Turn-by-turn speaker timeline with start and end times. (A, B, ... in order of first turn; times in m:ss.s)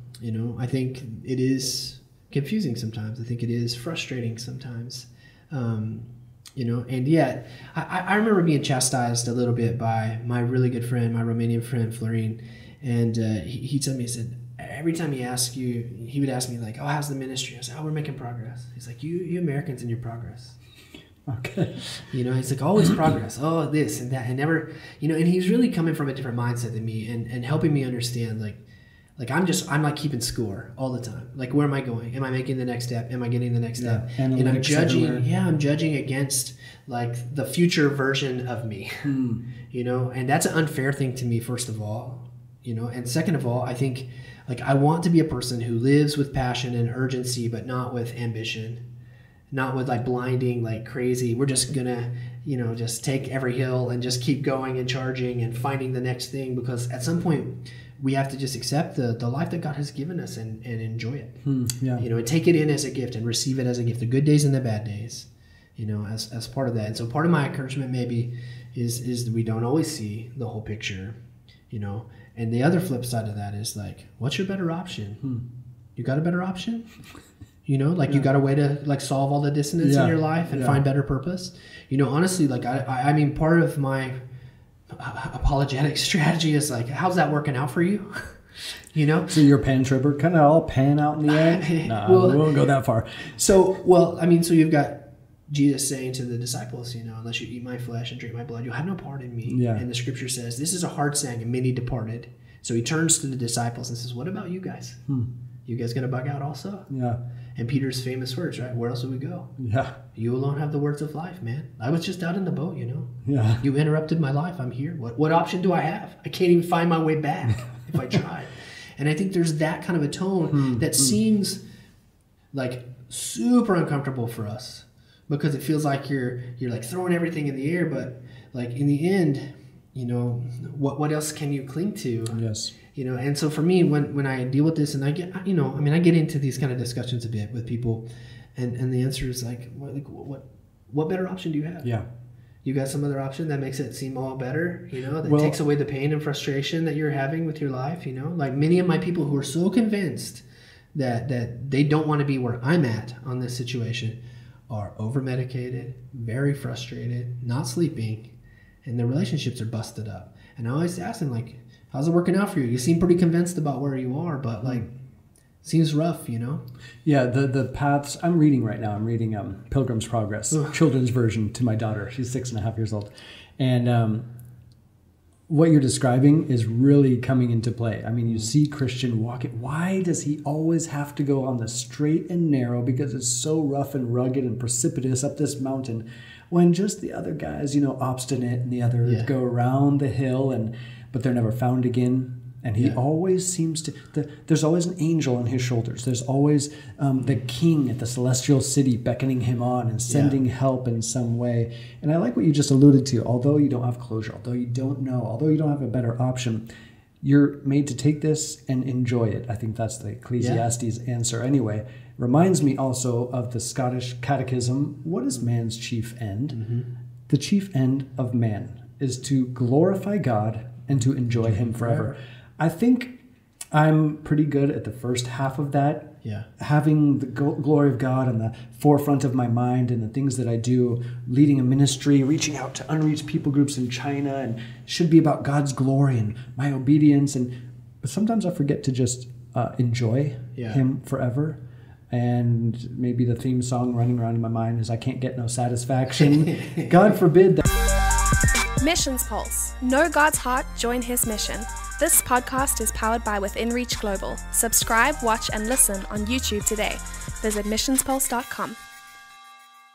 0:00.2-0:20.6 A
0:21.3-0:22.1 B
0:22.1-0:28.6 A
0:29.2-0:39.1 A
0:33.8-0:35.2 B
0:39.0-0:39.4 B
0:39.7-0:48.8 A
0:49.5-1:01.4 A
1:01.4-1:02.0 B
1:02.0-1:11.2 A
1:11.7-1:15.2 A
1:16.0-1:16.8 A
1:17.6-1:24.2 A
1:19.8-1:20.8 B
1:24.9-1:28.4 A
1:28.9-1:29.4 A
1:29.3-1:33.6 B
1:31.3-1:32.5 A
1:33.4-1:45.0 A
1:39.4-1:39.8 B
1:45.6-1:46.8 A
1:46.9-1:47.2 B
1:47.6-1:49.5 A
1:49.6-1:49.9 B
1:50.1-2:01.6 A
1:53.2-1:53.6 B
2:00.5-2:01.2 B
2:02.5-2:21.9 A
2:12.3-2:12.7 B
2:22.6-2:30.4 A
2:25.2-2:25.6 B
2:30.9-2:38.3 A
2:38.8-2:44.9 A
2:45.6-2:46.6 A
2:47.0-2:54.2 B
2:55.5-3:26.6 B
3:09.0-3:09.3 A
3:20.1-3:20.4 A
3:27.2-3:36.6 B
3:30.4-3:30.6 A
3:36.5-3:36.9 A
3:37.3-3:43.2 B
3:41.3-3:42.1 A
3:43.7-3:57.5 B
3:58.0-4:01.6 B
4:00.6-4:00.8 A
4:02.1-4:07.6 B
4:06.1-4:07.1 A
4:08.8-4:18.8 C